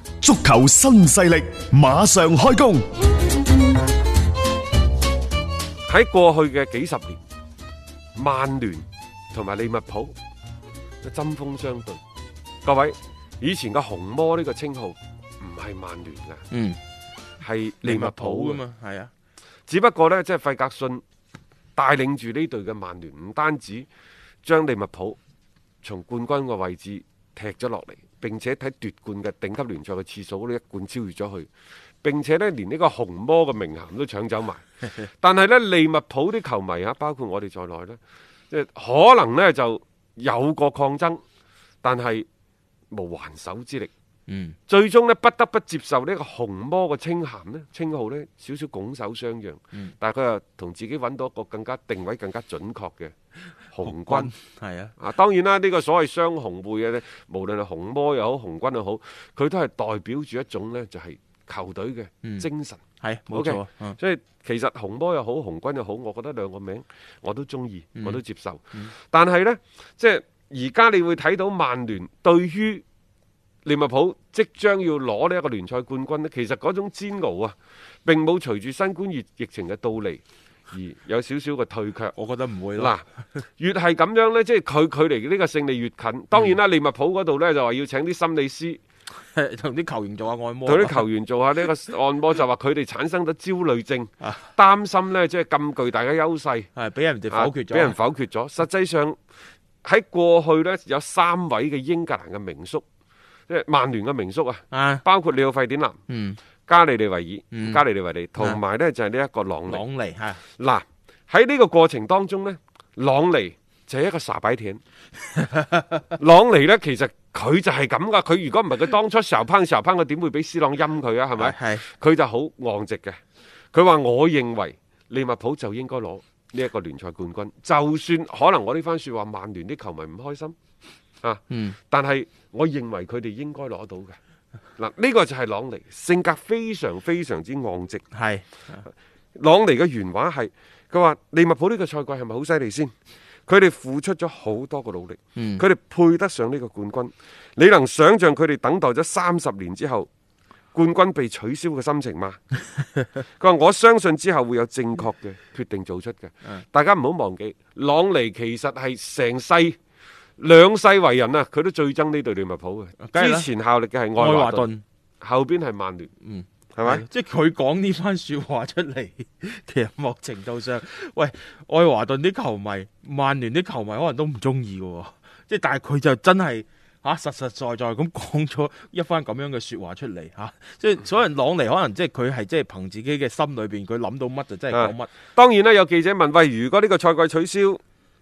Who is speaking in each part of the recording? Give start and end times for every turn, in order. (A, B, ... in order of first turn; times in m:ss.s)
0:00.2-0:02.9 A
0:05.9-0:07.2 B
0:08.2-0:10.1 B
0:11.0-0:12.0 B
0:12.6-0:16.5 B
0:16.5-0:16.8 C
0:17.4-0:18.6 B
0:17.8-0:19.1 C
0:19.7-0:21.0 B
0:21.8-0:23.9 B
0:24.4-0:25.2 B
0:25.8-0:31.5 B
0:32.0-0:38.0 B
0:38.5-0:41.2 B
0:41.8-0:42.3 B
0:42.9-0:43.9 B
0:44.3-0:44.6 C
0:44.7-0:53.1 B
0:53.7-0:54.3 B
0:53.8-0:55.0 C
0:55.0-1:02.8 B
1:03.0-1:04.0 C
1:03.3-1:12.8 B
1:13.6-1:22.2 B
1:22.2-1:23.0 C
1:22.8-1:23.1 B
1:23.6-1:28.8 B
1:29.2-1:31.0 C
1:30.6-1:36.7 B
1:34.2-1:34.5 C
1:36.8-1:38.0 C
1:37.3-1:39.2 B
1:39.8-1:42.8 B
1:43.5-1:46.0 B
1:44.7-1:45.0 C
1:46.1-1:46.4 C
1:46.7-1:49.8 B
1:47.5-1:47.8 C
1:49.7-1:50.4 C
1:50.6-1:54.8 B
1:55.3-1:56.1 C
1:56.2-2:03.2 B
2:01.4-2:01.8 C
2:03.7-2:10.5 B
2:11.2-2:14.2 B
2:11.5-2:11.8 C
2:14.8-2:18.0 B
2:18.1-2:18.8 C
2:19.4-2:22.9 B
2:23.5-2:30.1 B
2:25.4-2:25.6 C
2:30.7-2:32.4 B
2:33.4-2:39.8 B
2:40.4-2:44.7 B
2:43.0-2:43.5 C
2:44.2-2:44.8 C
2:45.2-2:46.1 B
2:46.2-3:05.1 C
2:46.8-2:47.0 B
3:04.7-3:07.8 B